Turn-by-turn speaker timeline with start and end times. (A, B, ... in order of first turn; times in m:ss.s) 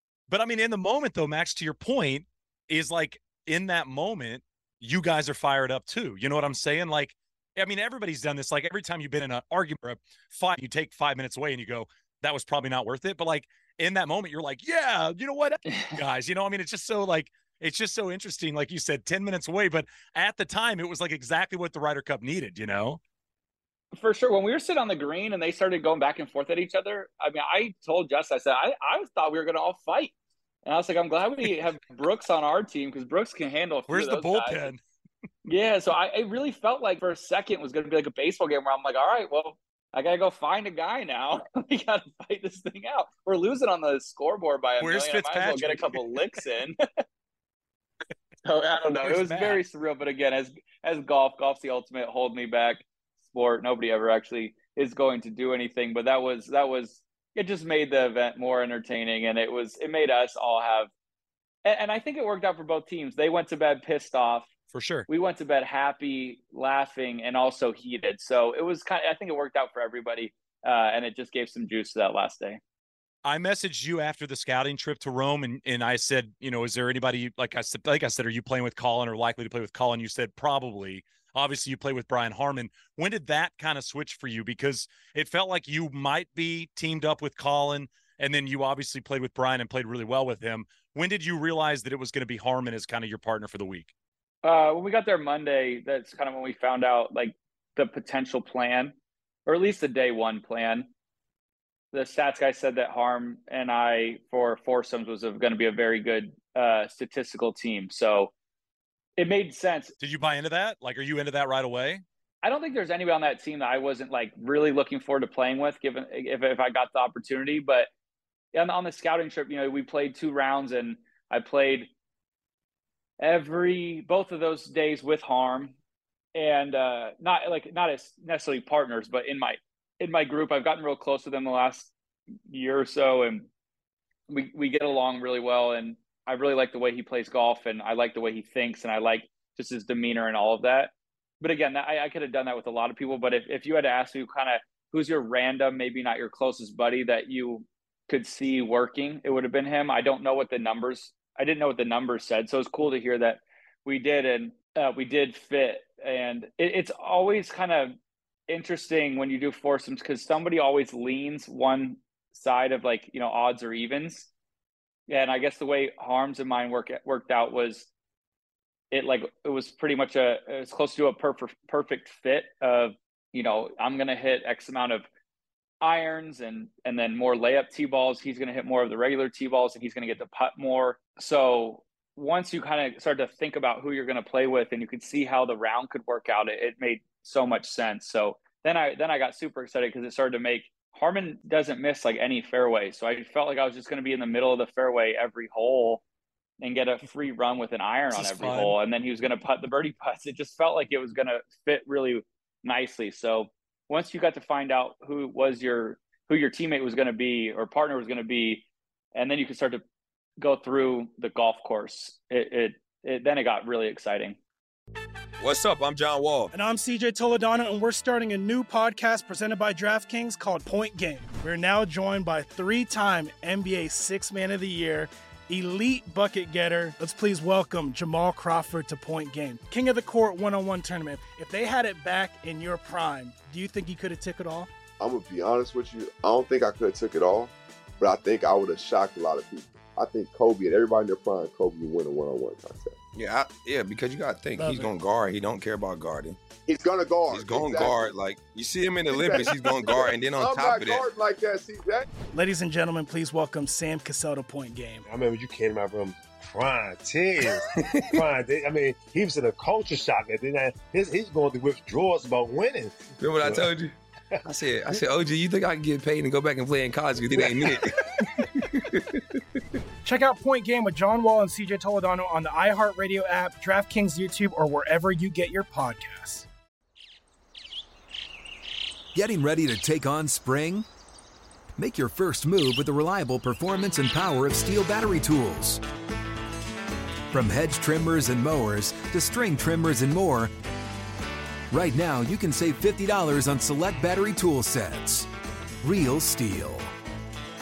0:00.3-0:23.0 A
0:15.7-0:16.0 B
0:23.9-0:30.1 B
0:30.7-0:34.7 B
0:33.9-0:34.8 A
0:35.5-0:46.8 B
0:44.8-0:46.2 A
0:48.4-1:00.9 B
0:49.0-0:49.6 A
1:01.6-1:04.5 B
1:04.7-1:05.1 A
1:05.1-1:12.6 B
1:13.2-1:33.9 A
1:34.4-1:38.9 B
1:39.5-1:40.9 B
1:41.9-1:48.3 B
1:49.2-1:49.9 B
1:50.0-1:52.0 A
1:52.4-1:57.9 B
1:58.5-2:01.9 B
2:03.2-2:05.7 B
2:06.4-2:11.9 B
2:12.5-2:13.5 B
2:14.3-2:38.0 B
2:38.5-2:44.3 B
2:45.1-2:47.9 B
2:48.9-2:55.1 B
2:55.8-3:16.0 B
3:16.6-3:29.8 B
3:18.1-3:18.8 A
3:30.4-3:34.4 B
3:35.4-3:36.5 C
3:36.5-3:54.7 D
3:55.0-4:03.0 E
4:03.2-4:06.4 C
4:04.6-4:04.9 D
4:06.7-4:08.1 E
4:07.3-4:11.1 C
4:09.1-4:12.1 E
4:12.3-4:15.0 D
4:15.1-4:23.7 F
4:17.8-4:18.1 C
4:23.2-4:23.9 C
4:24.5-4:29.1 C
4:27.4-4:27.8 F
4:30.0-4:36.5 D
4:39.1-4:40.9 G
4:41.8-4:45.8 G
4:47.3-4:50.5 G
4:51.7-4:55.3 G
4:55.8-4:56.9 G